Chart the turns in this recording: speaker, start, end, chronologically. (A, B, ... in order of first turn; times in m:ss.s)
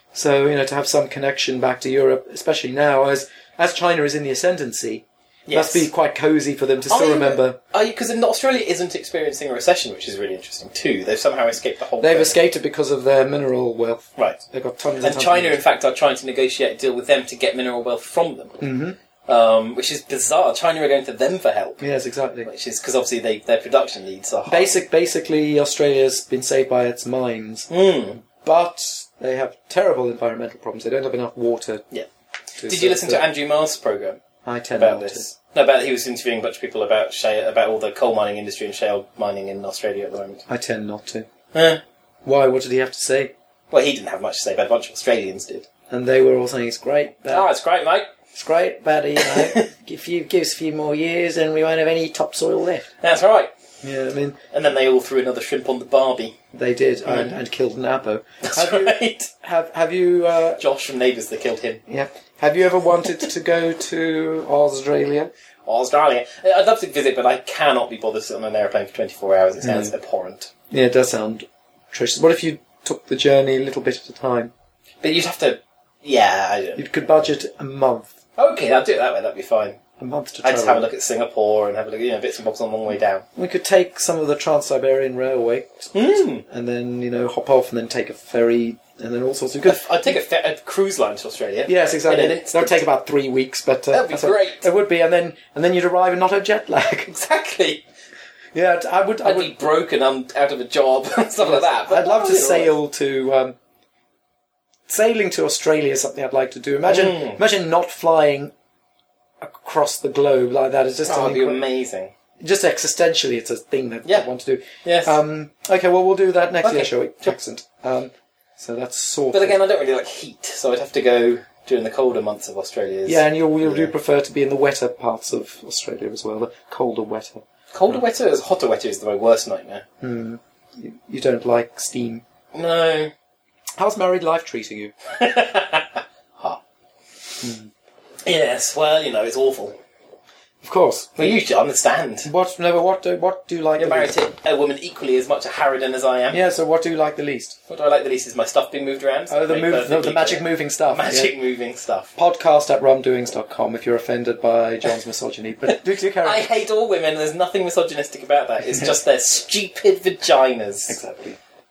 0:00.1-0:07.6 A
0:05.5-0:05.9 B
0:06.9-0:12.4 B
0:12.0-0:15.6 A
0:15.0-0:18.6 B
0:18.6-0:19.0 A
0:19.3-0:21.8 B
0:21.8-0:22.5 A
0:22.4-0:24.8 B
0:24.4-0:27.7 A
0:27.7-0:28.2 B
0:28.2-0:31.8 A
0:32.6-0:33.2 A
0:32.6-0:34.2 B
0:34.4-0:35.3 A
0:34.8-0:40.4 B
0:40.5-0:41.3 A
0:41.5-0:41.8 B
0:42.2-0:43.3 A
0:43.7-0:45.7 B
0:45.9-0:47.5 A
0:47.3-0:48.1 B
0:48.3-0:52.9 A
0:49.2-0:49.7 B
0:53.0-0:53.5 B
0:53.8-0:54.4 A
0:54.5-0:56.4 B
0:56.5-1:00.6 A
0:57.0-0:57.4 B
0:58.4-0:59.3 B
1:00.6-1:01.8 B
1:01.9-1:05.3 A
1:05.6-1:10.5 B
1:09.6-1:09.9 A
1:10.7-1:14.5 A
1:15.0-1:17.1 B
1:16.8-1:18.1 A
1:18.4-1:19.8 B
1:20.0-1:20.9 A
1:20.4-1:23.2 B
1:23.4-1:30.1 A
1:25.9-1:26.4 B
1:29.6-1:32.8 B
1:31.6-1:37.1 A
1:33.9-1:34.7 B
1:37.1-1:37.8 B
1:38.5-1:39.6 A
1:39.2-1:42.7 B
1:41.4-1:43.6 A
1:44.9-1:48.5 A
1:46.8-1:47.4 B
1:49.4-1:51.6 A
1:51.0-1:52.1 B
1:52.4-1:59.6 A
1:54.8-1:55.2 B
1:56.6-1:57.3 B
1:59.3-2:03.9 B
2:03.1-2:07.4 A
2:07.7-2:09.8 B
2:10.0-2:12.2 A
2:12.5-2:13.1 B
2:13.8-2:14.9 A
2:15.1-2:16.6 B
2:17.4-2:17.7 A
2:18.2-2:19.8 B
2:20.6-2:21.4 A
2:21.2-2:22.3 B
2:22.2-2:24.1 A
2:23.8-2:26.4 B
2:26.3-2:27.6 A
2:27.7-2:32.1 B
2:29.3-2:31.3 A
2:32.2-2:36.5 A
2:35.7-2:41.0 B
2:40.9-2:41.4 A